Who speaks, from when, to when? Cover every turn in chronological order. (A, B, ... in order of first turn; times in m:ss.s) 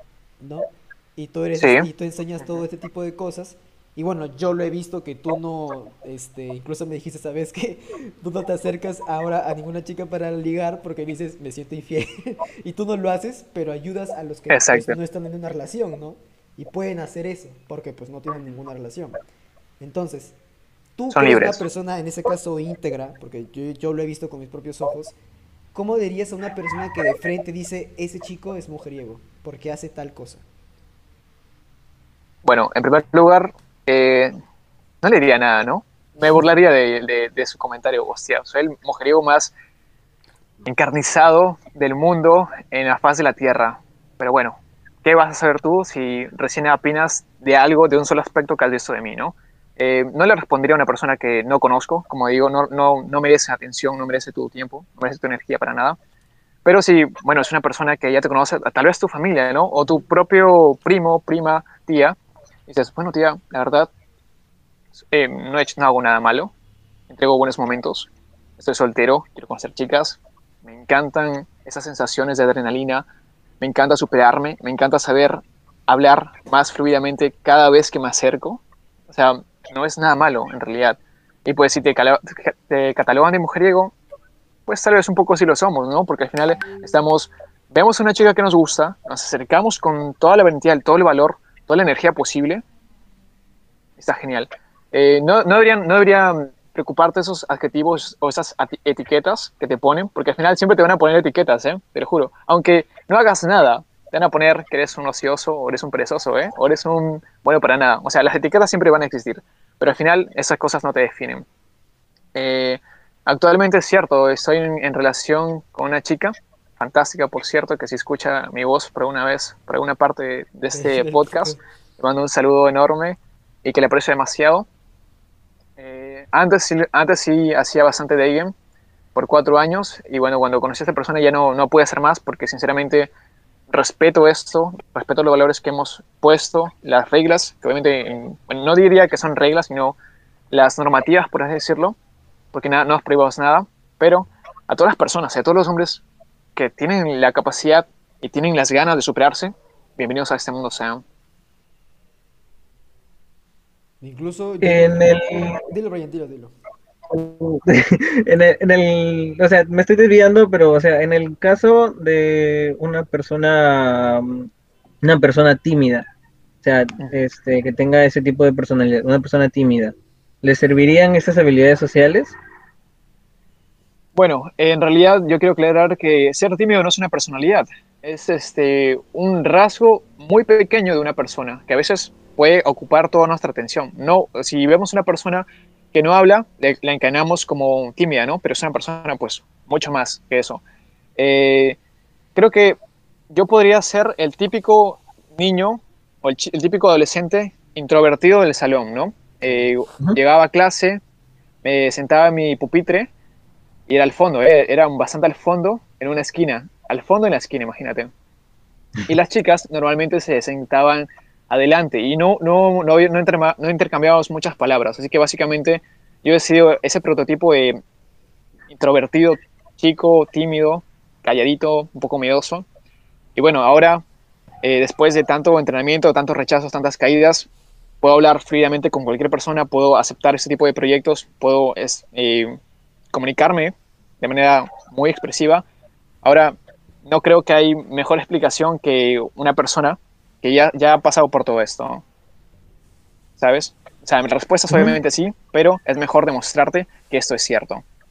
0:00.4-0:19.2 A
0:01.6-0:01.9 B
0:14.5-0:15.0 B
0:19.8-0:20.4 A
0:21.0-0:25.2 A
0:21.1-0:21.6 B
0:25.7-0:30.4 A
0:32.4-0:34.3 B
0:35.0-0:39.5 B
0:40.6-0:56.0 B
0:56.6-1:03.9 B
1:05.1-1:06.5 B
1:07.1-1:13.1 B
1:13.6-1:23.9 B
1:24.7-1:32.6 B
1:34.0-1:51.5 B
1:52.4-2:04.7 B
2:00.7-2:01.6 A
2:05.8-2:08.5 B
2:09.1-2:13.1 B
2:13.7-2:20.0 B
2:20.5-2:22.0 B
2:22.5-2:26.0 B
2:26.6-2:31.0 B
2:34.0-2:36.5 A
2:34.6-2:35.6 C
2:37.1-2:44.5 C
2:45.0-2:46.1 C
2:46.6-2:52.4 C
2:54.1-3:10.6 B
3:11.2-3:11.8 B
3:12.4-3:12.8 B
3:13.3-3:21.0 B
3:21.6-3:23.1 B
3:23.9-3:28.1 B
3:29.1-3:37.8 B
3:38.7-3:42.7 B
3:43.4-3:44.0 B
3:44.6-3:47.5 B
3:48.0-3:52.6 B
3:53.1-3:55.6 B
3:56.2-4:02.0 B
4:03.4-4:07.8 B
4:04.7-4:05.0 C